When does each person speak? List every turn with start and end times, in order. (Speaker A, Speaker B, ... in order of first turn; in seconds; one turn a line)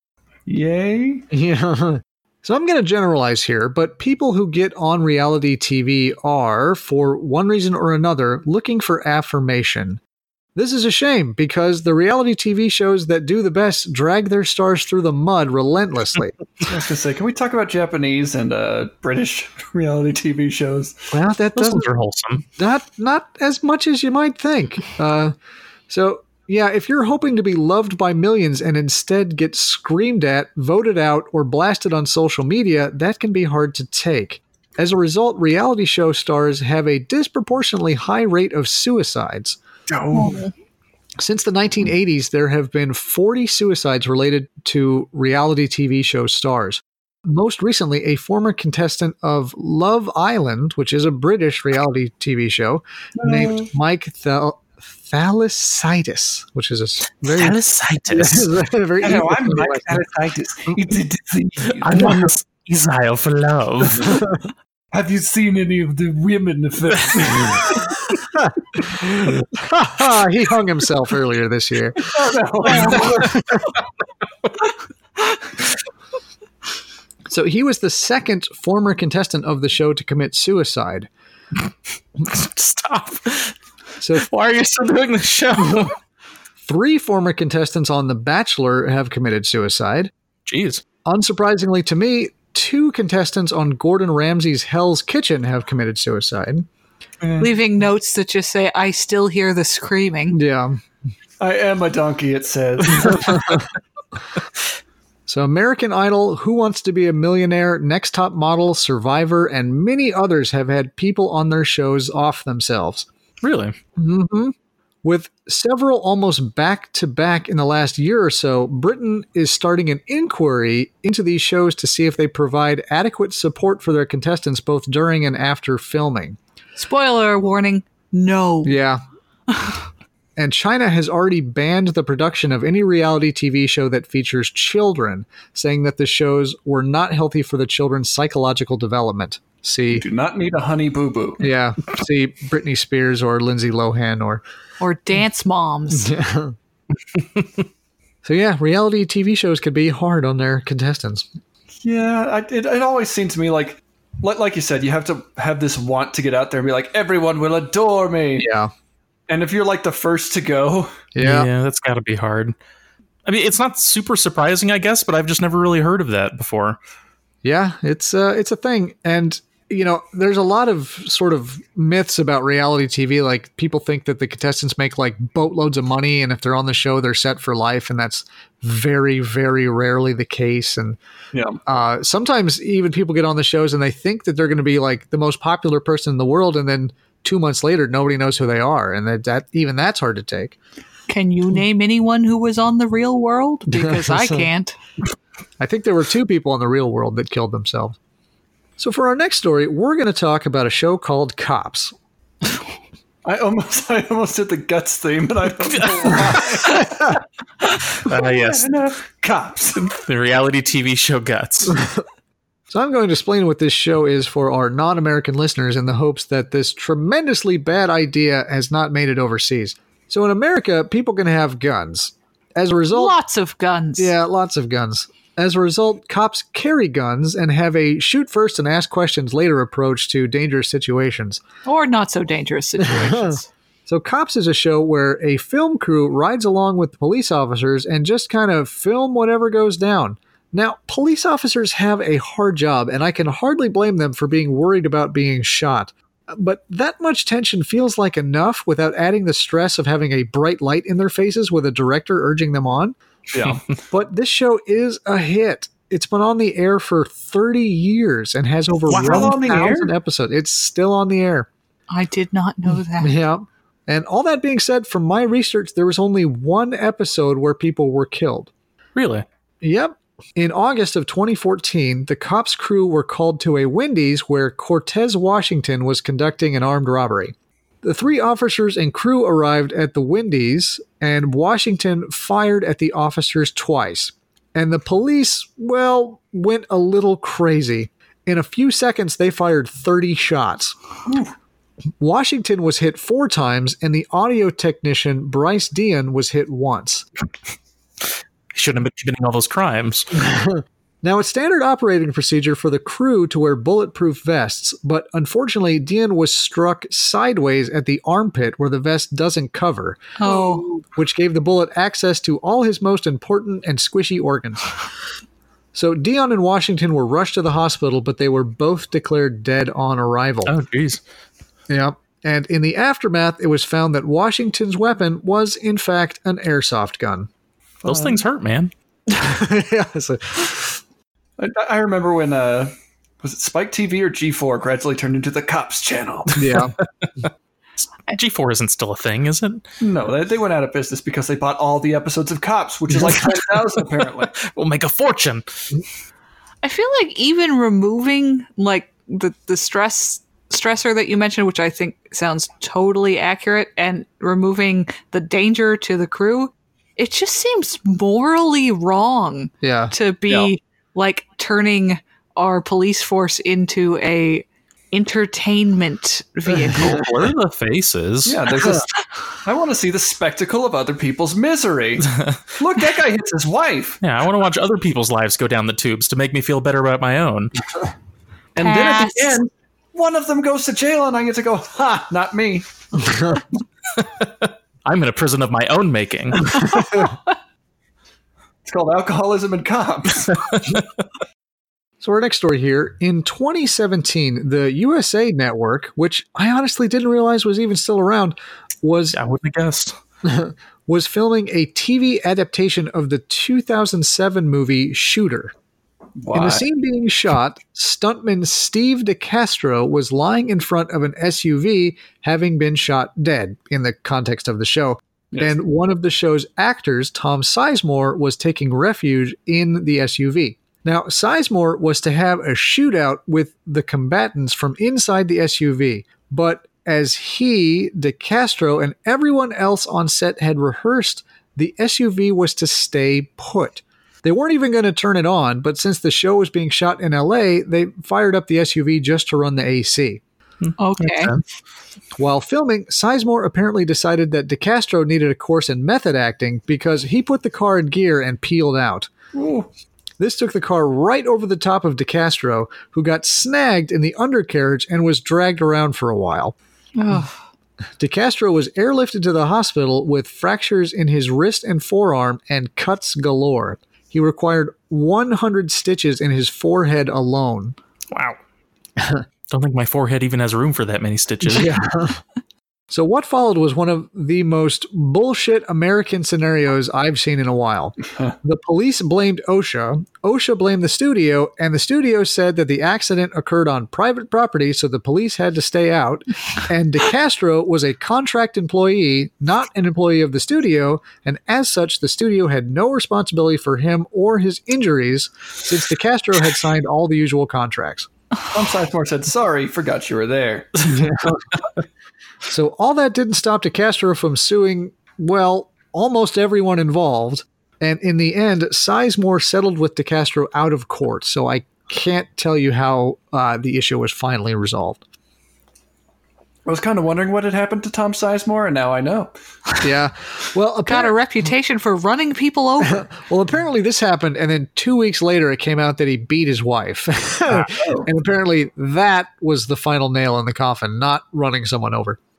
Speaker A: 0.5-1.3
Speaker B: 1.3-10.0
Speaker B: 10.6-16.4
Speaker A: 16.6-21.0
Speaker B: 21.1-21.9
Speaker C: 21.6-22.4
Speaker B: 22.6-25.3
Speaker B: 25.9-39.6
Speaker A: 39.9-40.4
Speaker D: 40.1-40.5
Speaker B: 41.2-60.0
Speaker A: 53.2-53.7
Speaker C: 57.2-58.5
Speaker A: 59.0-62.1
Speaker C: 61.8-64.2
Speaker B: 61.9-62.3
Speaker A: 64.9-68.1
Speaker B: 68.5-72.1
Speaker A: 72.0-73.4
Speaker B: 72.7-73.6
Speaker B: 77.3-81.1
Speaker C: 82.2-83.5
Speaker B: 84.0-84.3
Speaker C: 84.2-86.0
Speaker B: 86.6-90.1
Speaker C: 90.5-90.8
Speaker B: 91.0-96.7
Speaker D: 97.4-100.4
Speaker B: 100.3-100.8
Speaker A: 101.4-103.7
Speaker B: 105.3-113.1
Speaker C: 113.4-113.8
Speaker B: 114.0-126.4
Speaker D: 126.8-128.8
Speaker B: 128.7-129.0
Speaker D: 129.5-129.8
Speaker B: 130.4-140.0
Speaker A: 139.9-141.5
Speaker B: 141.4-144.4
Speaker D: 144.8-146.1
Speaker B: 145.9-146.6
Speaker B: 148.2-151.3
Speaker A: 151.8-158.5
Speaker B: 158.4-158.7
Speaker A: 159.3-161.0
Speaker B: 161.1-161.5
Speaker C: 161.2-162.6
Speaker C: 163.2-166.8
Speaker B: 167.4-181.0
Speaker A: 181.3-181.6
Speaker B: 181.7-190.6
Speaker D: 191.1-194.8
Speaker B: 193.7-194.5
Speaker B: 195.6-198.0
Speaker B: 198.8-201.9
Speaker A: 203.2-207.2
Speaker C: 205.7-206.5
Speaker C: 208.0-208.7
Speaker A: 208.0-210.0
Speaker C: 210.0-211.8
Speaker B: 211.7-212.0
Speaker B: 212.7-223.2
Speaker D: 222.9-224.1
Speaker B: 224.0-231.4
Speaker D: 231.7-233.5
Speaker B: 232.8-252.9
Speaker A: 253.3-253.6
Speaker B: 253.9-261.5
Speaker A: 258.9-259.9
Speaker C: 258.9-259.3
Speaker D: 261.9-263.2
Speaker B: 263.0-268.5
Speaker C: 268.9-269.2
Speaker B: 269.6-290.8
Speaker A: 291.1-291.3
Speaker B: 292.0-297.1
Speaker C: 298.5-300.1
Speaker B: 300.2-314.7
Speaker D: 310.2-310.7
Speaker B: 315.7-320.5
Speaker C: 320.5-321.0
Speaker B: 321.7-327.3
Speaker A: 327.8-328.2
Speaker C: 327.9-328.7
Speaker B: 329.1-330.8
Speaker A: 331.4-336.5
Speaker B: 336.4-336.8
Speaker C: 338.1-339.6
Speaker A: 339.8-344.3
Speaker C: 344.4-345.6
Speaker D: 346.6-367.1
Speaker B: 359.6-359.9
Speaker C: 366.7-368.6
Speaker A: 368.2-374.0
Speaker C: 372.1-372.4
Speaker C: 374.0-377.5
Speaker A: 378.6-383.4
Speaker D: 378.6-379.4
Speaker C: 384.0-386.8
Speaker B: 386.6-387.1
Speaker A: 388.6-390.6
Speaker B: 392.0-399.2
Speaker C: 399.1-400.0
Speaker B: 400.2-405.5
Speaker A: 406.2-406.6
Speaker B: 406.3-440.2
Speaker C: 440.6-441.4
Speaker D: 440.8-441.3
Speaker B: 442.2-449.1
Speaker A: 449.3-449.7
Speaker B: 450.2-456.6
Speaker D: 457.0-457.3
Speaker B: 458.0-467.8
Speaker C: 468.1-468.4
Speaker C: 469.5-471.8
Speaker B: 471.4-472.2
Speaker B: 472.9-498.1
Speaker A: 498.5-500.9
Speaker B: 500.9-501.6
Speaker B: 502.5-515.0
Speaker A: 516.7-519.3
Speaker B: 519.8-521.1
Speaker D: 520.9-523.1
Speaker B: 522.9-532.2
Speaker A: 527.6-528.1